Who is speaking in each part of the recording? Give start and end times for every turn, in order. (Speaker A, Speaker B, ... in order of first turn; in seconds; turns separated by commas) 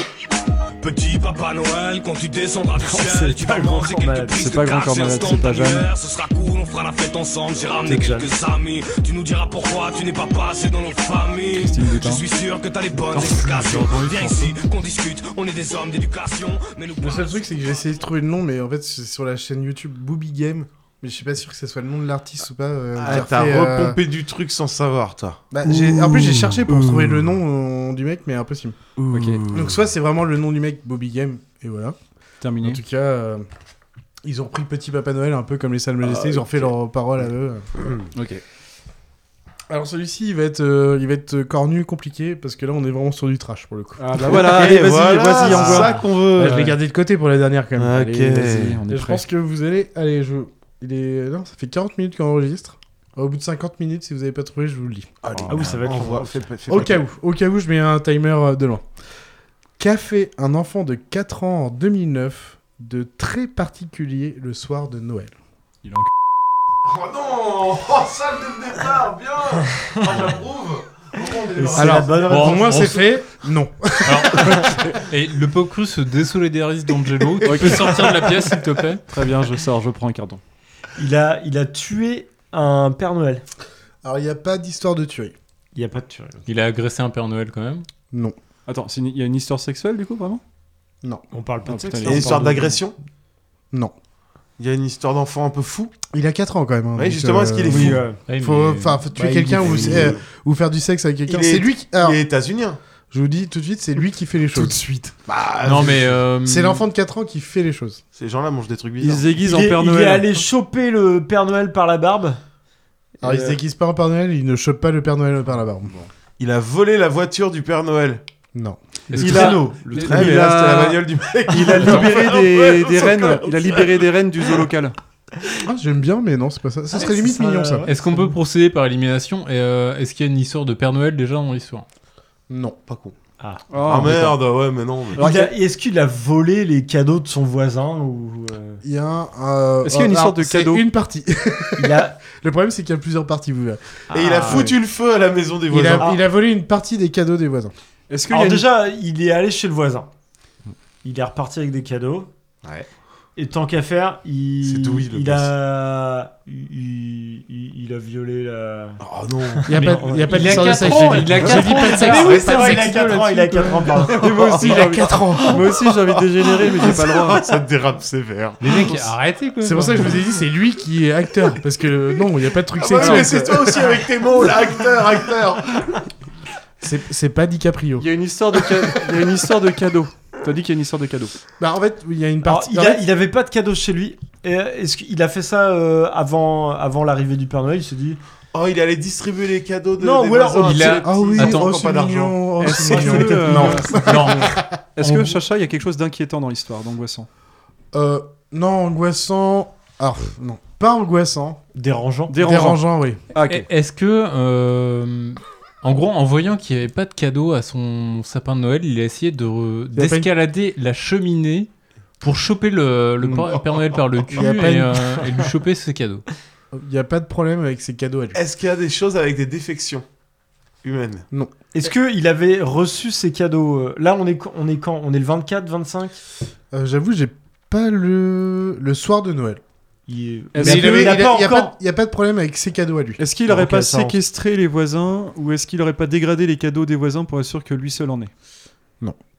Speaker A: 0.8-17.9, Speaker B: 2.8-4.5, Speaker C: 4.3-5.9, Speaker B: 7.8-8.3, Speaker C: 11.6-12.2, Speaker D: 13.1-14.5, Speaker E: 17.0-24.0, Speaker F: 22.9-25.4, Speaker E: 25.5-28.8, Speaker C: 25.6-27.2, Speaker F: 29.0-29.7, Speaker C: 29.1-29.4, Speaker E: 29.5-31.9, Speaker C: 32.4-32.8, Speaker E: 32.6-33.4, Speaker E: 34.2-37.7, Speaker F: 36.1-36.3, Speaker F: 37.8-38.1, Speaker C: 38.1-38.4, Speaker E: 39.7-44.8, Speaker C: 44.0-46.1, Speaker F: 44.2-46.8, Speaker E: 45.4-55.3, Speaker F: 47.8-48.8, Speaker C: 48.4-49.2, Speaker F: 55.2-57.0, Speaker B: 55.5-56.9, Speaker E: 56.7-58.8, Speaker E: 59.8-65.3, Speaker C: 65.8-66.1, Speaker F: 66.8-72.2, Speaker B: 71.5-73.0, Speaker E: 71.8-74.7, Speaker D: 72.3-73.1, Speaker D: 74.0-79.0, Speaker C: 77.4-78.0, Speaker C: 79.1-80.4, Speaker B: 81.0-83.4, Speaker E: 84.0-85.3, Speaker B: 85.7-86.4, Speaker D: 86.5-87.8, Speaker C: 88.7-90.4, Speaker B: 91.3-92.8, Speaker C: 91.7-92.6, Speaker F: 92.0-92.9, Speaker F: 94.6-95.9, Speaker E: 96.1-102.2, Speaker F: 97.0-98.0, Speaker B: 97.7-98.2, Speaker D: 98.3-99.0, Speaker B: 99.2-100.1, Speaker F: 99.5-100.2, Speaker F: 101.3-102.8, Speaker E: 103.1-104.8, Speaker C: 104.5-105.1, Speaker F: 105.2-106.2, Speaker D: 105.6-106.8, Speaker E: 106.4-108.0, Speaker F: 108.1-109.3, Speaker C: 109.0-110.4, Speaker B: 109.4-112.4, Speaker E: 113.2-116.1, Speaker B: 113.2-113.6, Speaker F: 116.4-118.2, Speaker D: 119.1-120.2, Speaker F: 119.2-124.1, Speaker C: 119.2-124.9, Speaker B: 119.3-120.2, Speaker D: 121.8-122.1, Speaker E: 125.6-127.9, Speaker B: 126.9-128.4, Speaker D: 127.9-131.8, Speaker E: 132.5-132.8, Speaker F: 132.9-133.2, Speaker B: 133.4-133.7, Speaker C: 133.7-134.4, Speaker F: 133.8-135.2, Speaker C: 135.2-135.5, Speaker B: 135.2-138.8, Speaker E: 138.8-144.7, Speaker C: 139.8-140.8, Speaker B: 141.8-142.2, Speaker B: 144.1-144.8, Speaker F: 144.1-146.1, Speaker E: 145.7-147.7, Speaker C: 148.1-148.7, Speaker B: 148.3-150.1, Speaker B: 151.0-152.3, Speaker B: 153.3-159.0, Speaker F: 154.6-155.5, Speaker F: 159.0-160.2, Speaker B: 159.5-164.8, Speaker E: 159.7-163.2, Speaker D: 160.3-163.8, Speaker C: 164.2-167.4, Speaker E: 164.3-165.6, Speaker F: 166.4-169.0, Speaker D: 168.6-170.2, Speaker E: 169.6-173.9, Speaker F: 172.8-175.9, Speaker C: 173.0-173.3, Speaker E: 176.8-178.1, Speaker C: 178.0-181.3, Speaker E: 181.6-183.0, Speaker B: 182.4-188.2, Speaker F: 188.5-192.5, Speaker B: 190.0-191.4, Speaker D: 190.6-191.8, Speaker E: 191.0-194.6, Speaker C: 192.6-194.1, Speaker B: 192.8-193.9, Speaker D: 194.0-195.4, Speaker C: 194.9-197.3, Speaker E: 197.9-201.6, Speaker B: 201.7-202.7, Speaker C: 202.3-203.7, Speaker E: 202.3-203.2, Speaker D: 203.4-211.7, Speaker E: 209.9-210.3, Speaker D: 212.2-216.2, Speaker E: 213.2-213.5, Speaker E: 214.3-215.3, Speaker E: 216.7-218.4, Speaker F: 218.3-220.0, Speaker F: 220.8-221.2, Speaker B: 221.7-226.2, Speaker E: 226.7-229.6, Speaker B: 230.1-231.7, Speaker C: 230.5-231.2, Speaker E: 230.6-233.2, Speaker C: 233.2-238.3, Speaker B: 233.4-234.2